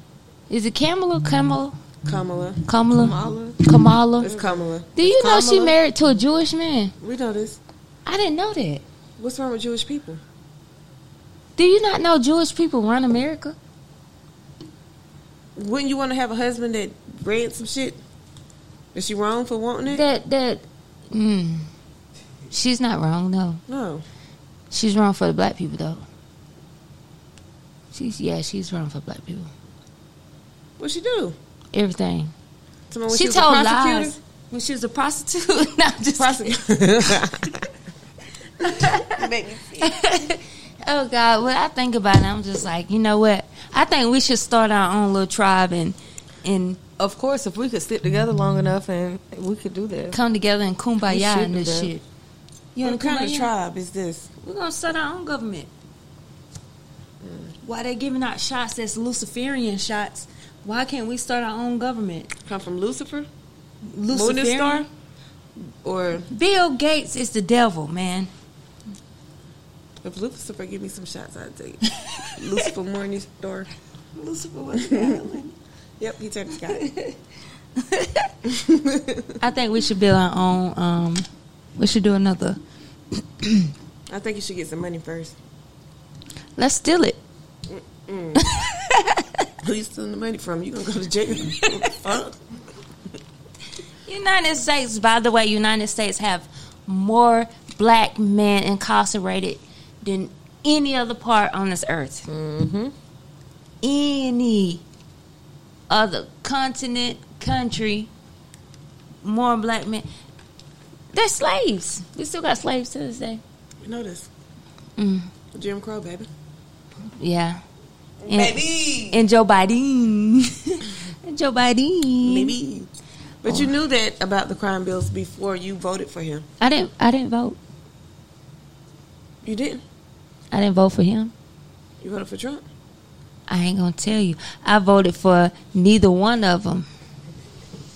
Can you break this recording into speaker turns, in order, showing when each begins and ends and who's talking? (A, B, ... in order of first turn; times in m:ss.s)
0:00.5-0:01.8 A
0:02.0-0:02.6 B
0:02.7-0:04.3 A
0:02.9-0:03.6 C
0:04.2-0:04.9 B
0:05.0-0:06.9 A
0:05.0-0:05.8 C
0:07.0-0:07.6 B
0:08.1-0:08.8 A
0:09.2-0:10.2 B
0:11.6-0:13.6 A
0:15.6-0:18.0 B
0:18.9-0:20.0 B
0:19.9-0:21.7 A
0:22.5-0:23.6 A
0:23.7-0:24.0 B
0:24.7-0:26.0 A
0:27.9-0:29.5 A
0:30.8-0:31.4 B
0:31.7-0:32.3 A
0:32.9-0:34.2 B
0:33.1-0:37.3 A
0:36.2-0:37.6 B
0:38.6-0:39.3 A
0:38.7-0:39.9 B
0:39.8-0:46.8 A
0:47.0-0:50.2 C
0:50.1-0:52.0 A
0:51.1-0:51.9 C
0:52.8-0:53.5 A
0:52.8-0:54.3 B
0:54.4-0:55.7 A
0:57.2-0:57.5 B
0:57.6-1:02.3 A
1:02.5-1:03.3 B
1:03.9-1:04.9 A
1:04.1-1:04.9 B
1:05.8-1:06.3 B
1:06.3-1:08.3 A
1:10.0-1:13.7 B
1:11.9-1:12.7 A
1:14.2-1:15.5 A
1:14.8-1:15.2 B
1:16.0-1:16.9 B
1:16.7-1:17.2 A
1:17.8-1:18.3 A
1:18.5-1:19.4 B
1:19.4-1:21.3 A
1:21.8-1:22.6 A
1:23.4-1:23.7 A
1:24.1-1:25.4 B
1:26.6-1:27.2 A
1:27.7-1:28.4 B
1:28.4-1:29.5 A
1:29.6-1:32.4 B
1:31.4-1:32.0 A
1:34.1-1:42.3 A
1:42.3-1:42.9 C
1:43.8-1:44.8 A
1:45.9-1:48.1 A
1:49.2-1:50.1 A
1:51.1-1:53.4 A
1:53.8-1:54.3 B
1:55.0-1:55.3 A
1:55.5-1:56.3 B
1:57.2-1:57.6 A
1:58.2-1:59.2 B
1:58.3-2:02.6 A
2:02.2-2:02.9 B
2:03.4-2:06.5 B
2:06.6-2:07.6 A
2:09.4-2:09.8 B
2:10.5-2:11.3 A
2:12.0-2:12.6 B
2:13.5-2:16.9 A